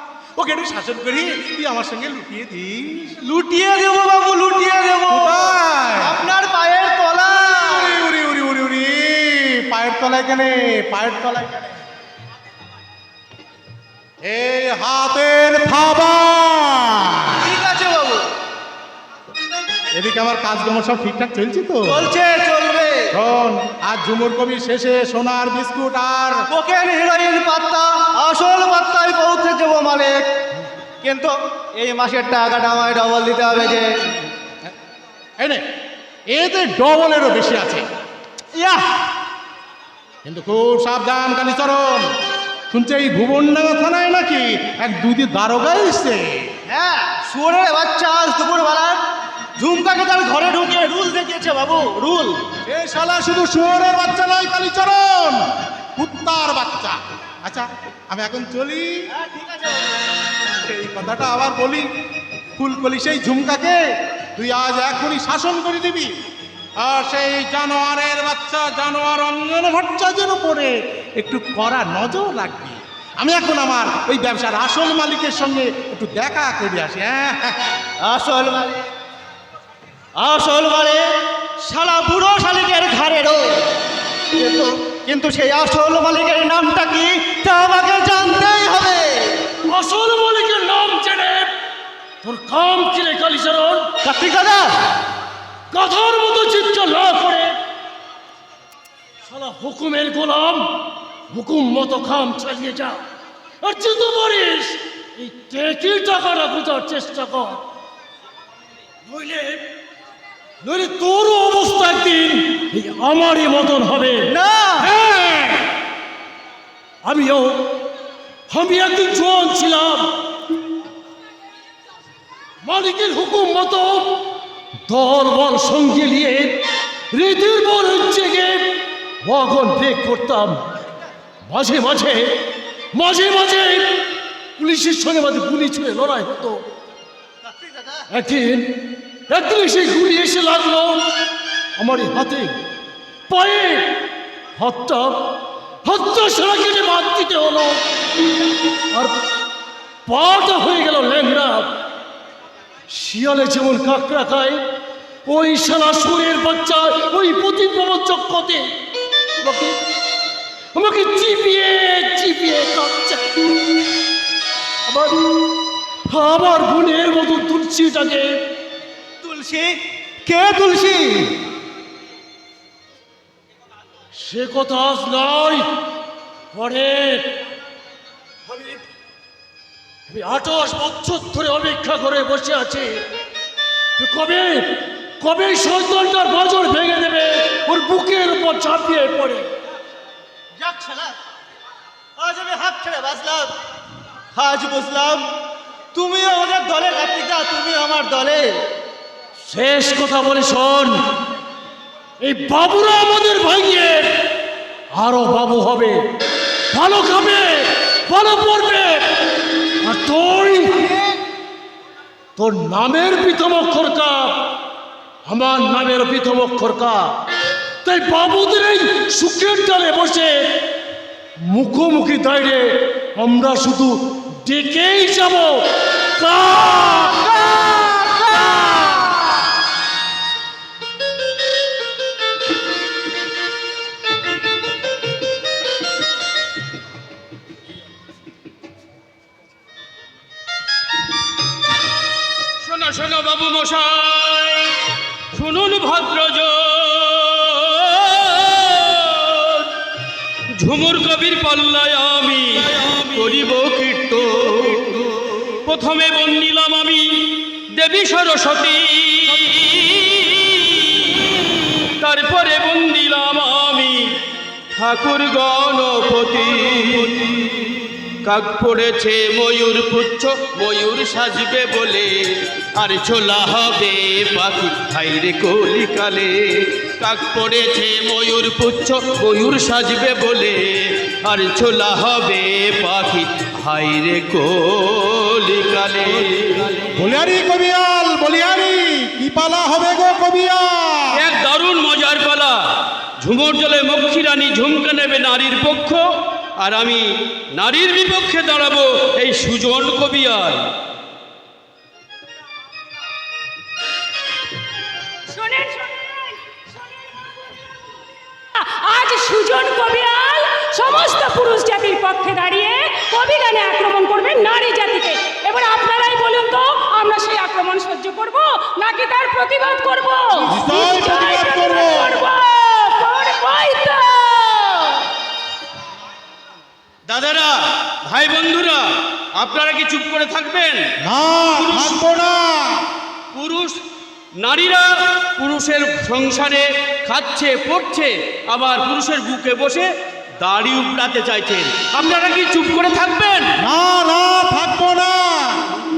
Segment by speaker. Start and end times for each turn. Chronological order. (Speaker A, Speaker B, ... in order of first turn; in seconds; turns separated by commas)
Speaker A: 0.4-3.2, Speaker B: 3.2-8.0, Speaker A: 5.1-6.2, Speaker A: 7.6-11.8, Speaker A: 14.2-17.5, Speaker B: 17.4-18.2, Speaker A: 19.9-22.0, Speaker B: 21.8-23.1, Speaker A: 23.1-26.4, Speaker B: 26.5-30.2, Speaker B: 31.0-33.9, Speaker A: 36.3-37.9, Speaker B: 38.5-38.8, Speaker A: 40.2-42.1, Speaker A: 42.7-46.4, Speaker B: 46.7-49.0, Speaker B: 49.6-52.3, Speaker A: 52.6-55.4, Speaker A: 56.0-59.0, Speaker B: 59.1-59.9, Speaker A: 60.5-61.9, Speaker A: 62.6-63.8, Speaker A: 64.3-66.1, Speaker A: 66.8-77.6, Speaker B: 78.0-78.9, Speaker B: 80.2-81.0, Speaker B: 81.6-83.4, Speaker B: 84.3-89.2, Speaker C: 89.7-91.5, Speaker C: 92.2-93.9, Speaker B: 94.0-94.7, Speaker C: 95.7-97.6, Speaker C: 99.3-100.7, Speaker C: 101.3-103.0, Speaker C: 103.6-107.6, Speaker C: 109.0-109.6, Speaker C: 110.6-115.6, Speaker B: 114.3-114.9, Speaker C: 117.0-117.6, Speaker C: 118.5-120.1, Speaker C: 122.6-124.2, Speaker C: 124.9-126.6, Speaker C: 127.1-128.7, Speaker C: 129.2-130.6, Speaker C: 131.5-132.3, Speaker C: 132.9-134.0, Speaker C: 134.6-136.6, Speaker B: 137.4-138.0, Speaker C: 138.1-138.8, Speaker C: 139.3-141.0, Speaker C: 141.8-142.5, Speaker C: 143.3-144.0, Speaker C: 144.6-145.3, Speaker C: 145.8-147.8, Speaker C: 150.1-151.7, Speaker C: 152.9-154.6, Speaker C: 155.2-158.7, Speaker C: 159.4-159.8, Speaker C: 160.7-163.4, Speaker C: 164.9-165.3, Speaker C: 166.1-168.4, Speaker B: 169.2-171.2, Speaker C: 174.2-175.7, Speaker C: 176.5-177.2, Speaker C: 178.5-178.8, Speaker C: 180.1-183.0, Speaker C: 184.0-184.7, Speaker C: 185.2-189.5, Speaker B: 190.6-191.2, Speaker B: 192.2-193.5, Speaker B: 194.3-195.2, Speaker B: 195.9-198.4, Speaker C: 199.5-201.0, Speaker C: 202.2-204.1, Speaker C: 204.9-206.0, Speaker C: 206.7-209.0, Speaker C: 209.8-210.9, Speaker C: 212.4-214.4, Speaker C: 215.3-217.1, Speaker C: 217.8-220.5, Speaker C: 221.4-225.7, Speaker C: 226.2-229.3, Speaker D: 242.6-244.8, Speaker D: 245.3-249.7, Speaker D: 250.5-264.1, Speaker D: 264.7-287.0, Speaker A: 286.9-291.2, Speaker D: 291.1-292.6, Speaker D: 293.2-296.0, Speaker D: 296.6-300.7, Speaker E: 305.3-306.6, Speaker E: 308.5-325.0, Speaker A: 320.5-322.2, Speaker D: 327.1-330.8, Speaker A: 331.0-332.8, Speaker D: 331.6-332.0, Speaker D: 333.3-333.8, Speaker D: 334.4-339.9, Speaker D: 340.4-343.5, Speaker A: 343.6-345.6